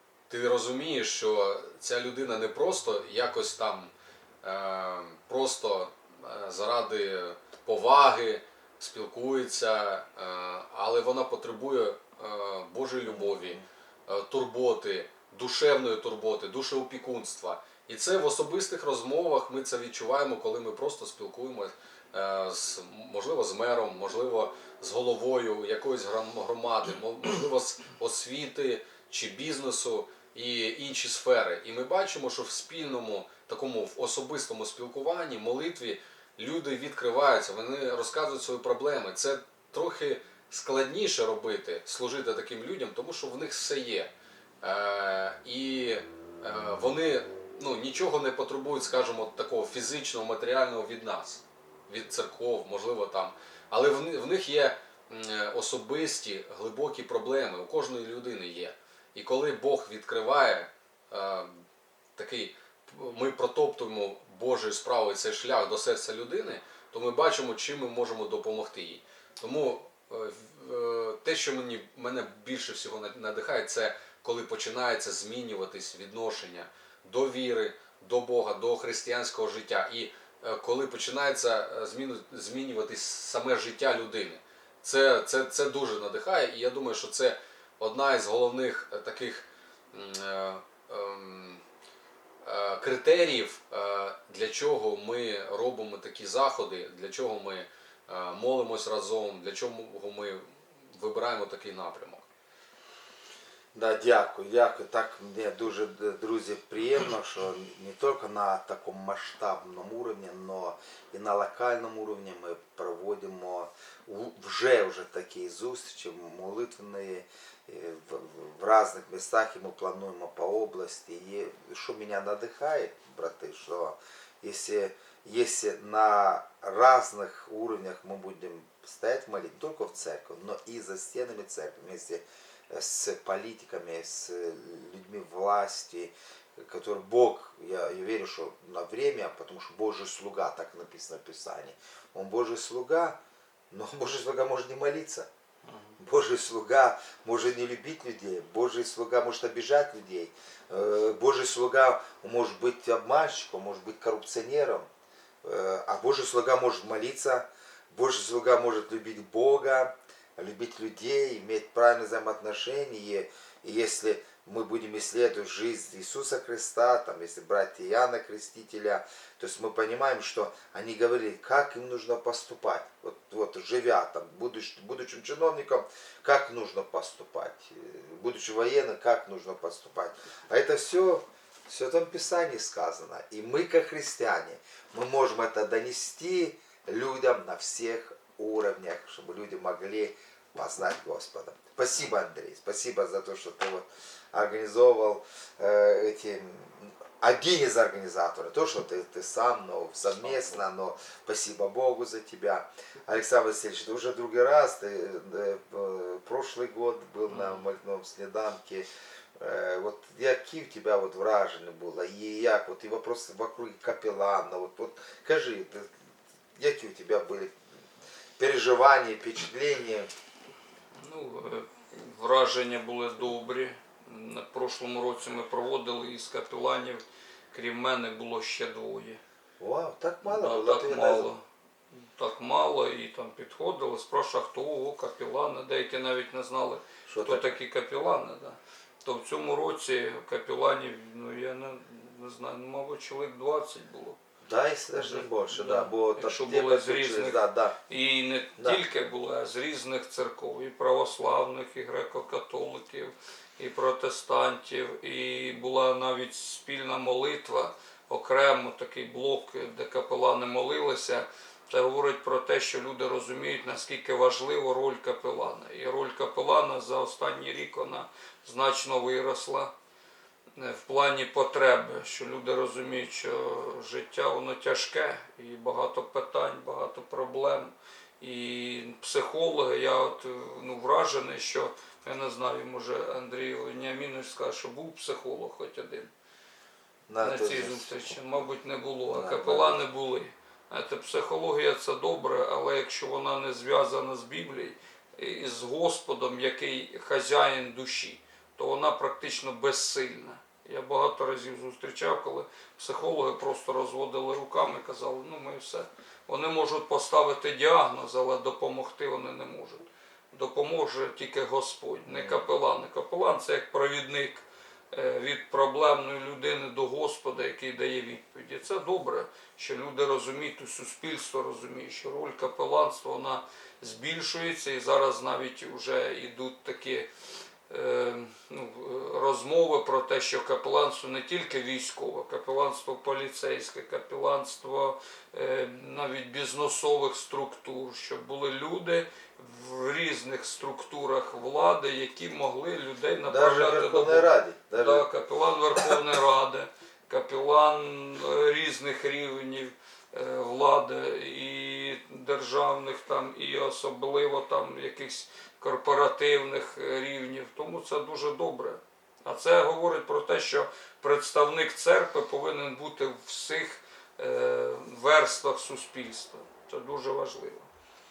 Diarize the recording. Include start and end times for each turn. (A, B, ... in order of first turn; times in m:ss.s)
0:00.3-1:01.6 A
0:13.1-0:13.6 B
1:02.2-1:31.6 A
1:32.4-1:42.3 A
1:43.7-2:23.2 B
2:23.7-2:25.3 B
2:25.6-2:26.0 C
2:26.0-2:34.9 B
2:35.4-3:28.9 B
3:27.3-3:27.6 C
3:29.4-3:35.9 B
3:36.6-3:37.5 B
3:38.4-3:40.1 B
3:41.0-3:49.2 C
3:49.6-3:51.3 B
3:50.2-3:51.4 C
3:51.9-4:04.2 C
3:57.1-3:57.6 B
4:04.4-4:07.8 B
4:05.0-4:29.7 C
4:08.6-4:08.8 B
4:30.6-4:46.1 C
4:47.1-4:48.1 B
4:47.2-5:27.1 C
4:49.1-4:49.8 B
5:12.1-5:12.4 B
5:27.7-6:07.7 C
5:43.2-5:45.1 B